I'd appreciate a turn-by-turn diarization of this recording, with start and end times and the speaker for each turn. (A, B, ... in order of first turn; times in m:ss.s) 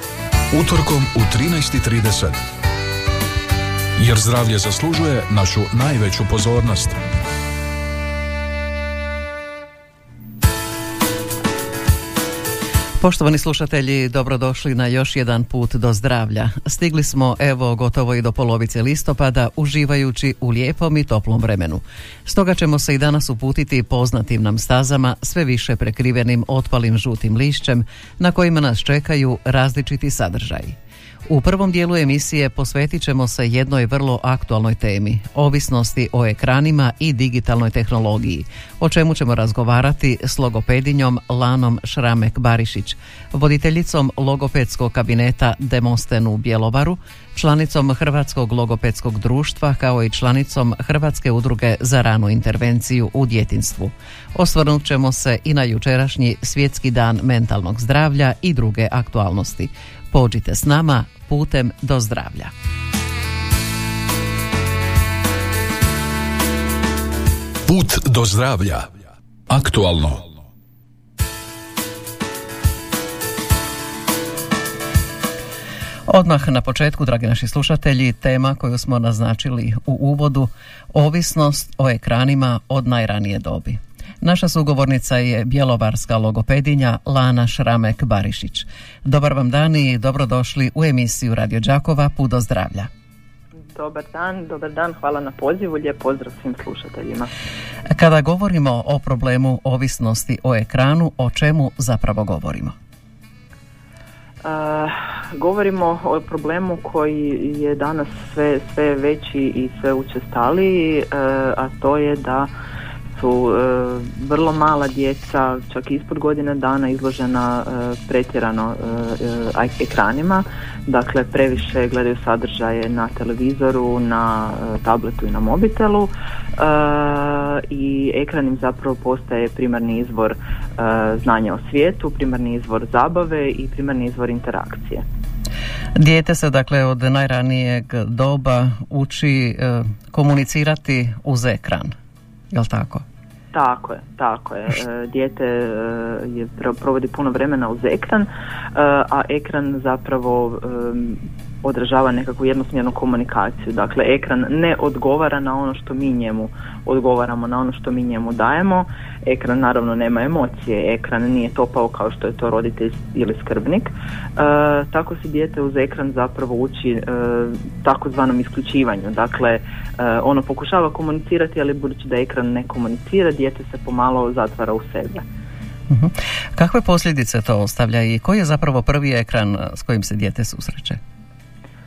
0:00.5-0:02.4 A
0:04.0-0:07.0 A
0:13.0-0:30.8 B
0:31.3-1:02.5 B
1:07.7-1:08.9 A
1:09.5-1:10.4 A
1:16.1-1:32.9 B
1:33.7-1:37.3 C
1:37.9-1:42.7 B
1:44.4-1:52.5 C
1:53.2-2:15.0 C
2:16.0-2:21.9 B
2:22.5-2:23.0 B
2:23.5-2:55.2 C
2:55.9-3:01.0 B